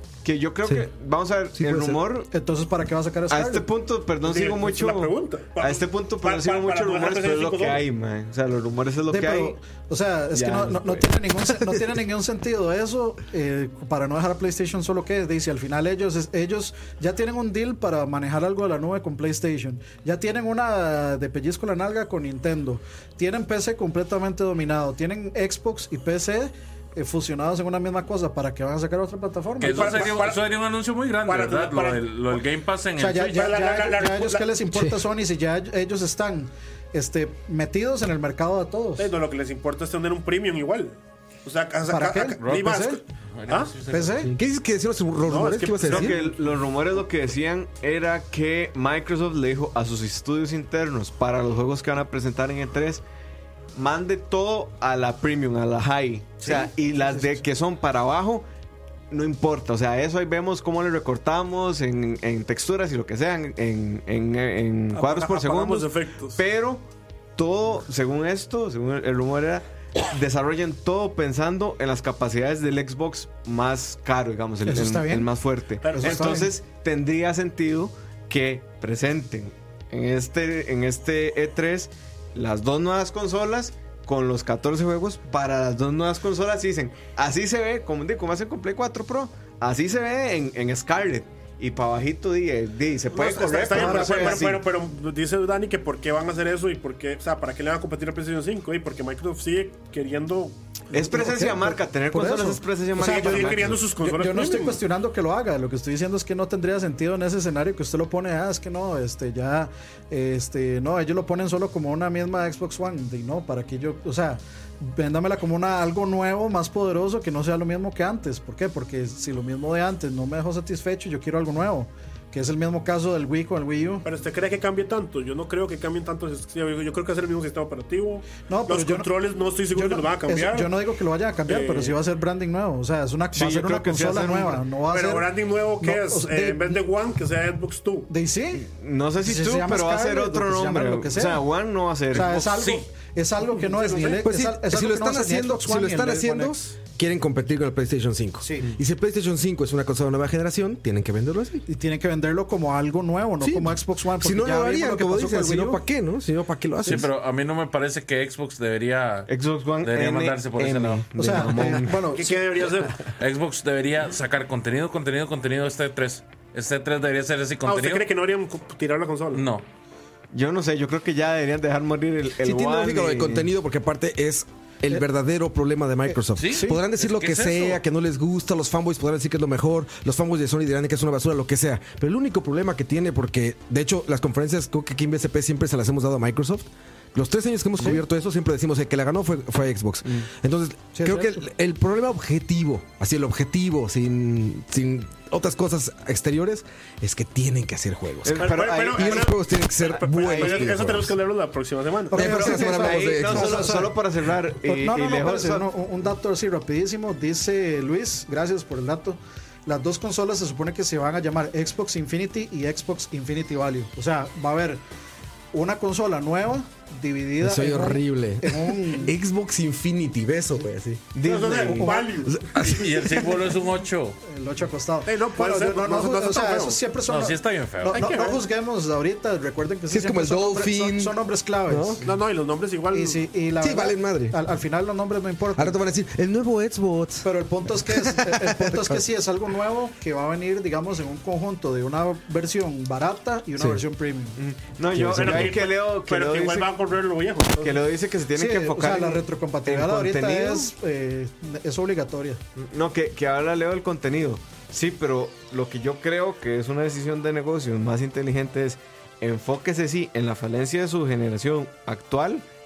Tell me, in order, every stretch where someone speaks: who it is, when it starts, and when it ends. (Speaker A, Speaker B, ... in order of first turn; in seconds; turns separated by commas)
Speaker A: 0.2-2.3, Speaker B: 1.6-2.0, Speaker C: 2.3-3.7, Speaker A: 3.3-9.6, Speaker D: 4.2-7.8, Speaker C: 9.1-30.2, Speaker A: 10.3-11.1, Speaker E: 29.6-33.4, Speaker D: 29.6-30.4, Speaker D: 31.2-32.0, Speaker C: 33.0-39.1, Speaker D: 33.2-34.5, Speaker D: 39.0-43.8, Speaker C: 41.9-43.0, Speaker E: 43.3-44.3, Speaker C: 43.9-44.3, Speaker B: 44.3-46.2, Speaker D: 45.2-46.3, Speaker A: 45.8-53.0, Speaker A: 53.7-58.5, Speaker A: 59.1-66.8, Speaker D: 64.9-66.4, Speaker A: 67.4-94.7, Speaker C: 74.7-75.3, Speaker D: 75.8-76.5, Speaker C: 75.9-76.5, Speaker D: 93.1-100.5, Speaker C: 93.7-94.5, Speaker A: 100.9-103.8, Speaker C: 100.9-124.0, Speaker D: 103.0-104.8, Speaker D: 124.0-130.7, Speaker C: 128.4-129.1, Speaker C: 129.7-136.8, Speaker D: 131.5-132.0, Speaker A: 133.3-134.6, Speaker D: 134.9-138.1, Speaker C: 138.1-138.6, Speaker A: 138.5-142.6, Speaker C: 139.2-141.4, Speaker C: 142.1-146.6, Speaker E: 142.6-142.8, Speaker D: 143.6-144.2, Speaker B: 144.2-151.7, Speaker C: 148.4-148.7, Speaker C: 151.7-155.8, Speaker B: 153.4-157.1, Speaker E: 156.8-159.3, Speaker A: 159.3-162.9, Speaker E: 159.8-161.1, Speaker C: 161.2-162.4, Speaker D: 162.0-163.0, Speaker E: 163.2-168.1, Speaker D: 167.6-169.4, Speaker E: 169.3-169.6, Speaker A: 170.3-173.5, Speaker B: 172.4-201.1, Speaker C: 176.1-176.8, Speaker E: 176.4-177.8, Speaker C: 190.9-191.4, Speaker A: 198.2-199.3, Speaker D: 198.3-202.4, Speaker A: 200.3-200.6, Speaker C: 202.1-204.0, Speaker B: 202.1-203.8, Speaker A: 202.1-205.7, Speaker C: 204.6-214.8, Speaker C: 215.5-219.1, Speaker B: 217.4-221.1, Speaker A: 221.1-222.0, Speaker D: 221.2-222.5, Speaker C: 221.3-222.2, Speaker B: 222.2-223.3, Speaker E: 222.5-224.2, Speaker C: 224.2-232.1, Speaker D: 225.0-226.8, Speaker E: 227.1-228.2, Speaker D: 227.9-228.4, Speaker B: 229.9-232.1, Speaker D: 232.0-233.2, Speaker C: 232.9-235.8, Speaker B: 233.6-234.4, Speaker B: 235.6-239.0, Speaker C: 237.2-244.4, Speaker B: 243.6-243.8, Speaker A: 244.3-246.7, Speaker B: 244.9-245.6, Speaker D: 245.1-247.9, Speaker A: 247.6-250.7, Speaker C: 248.3-252.4, Speaker A: 252.6-262.4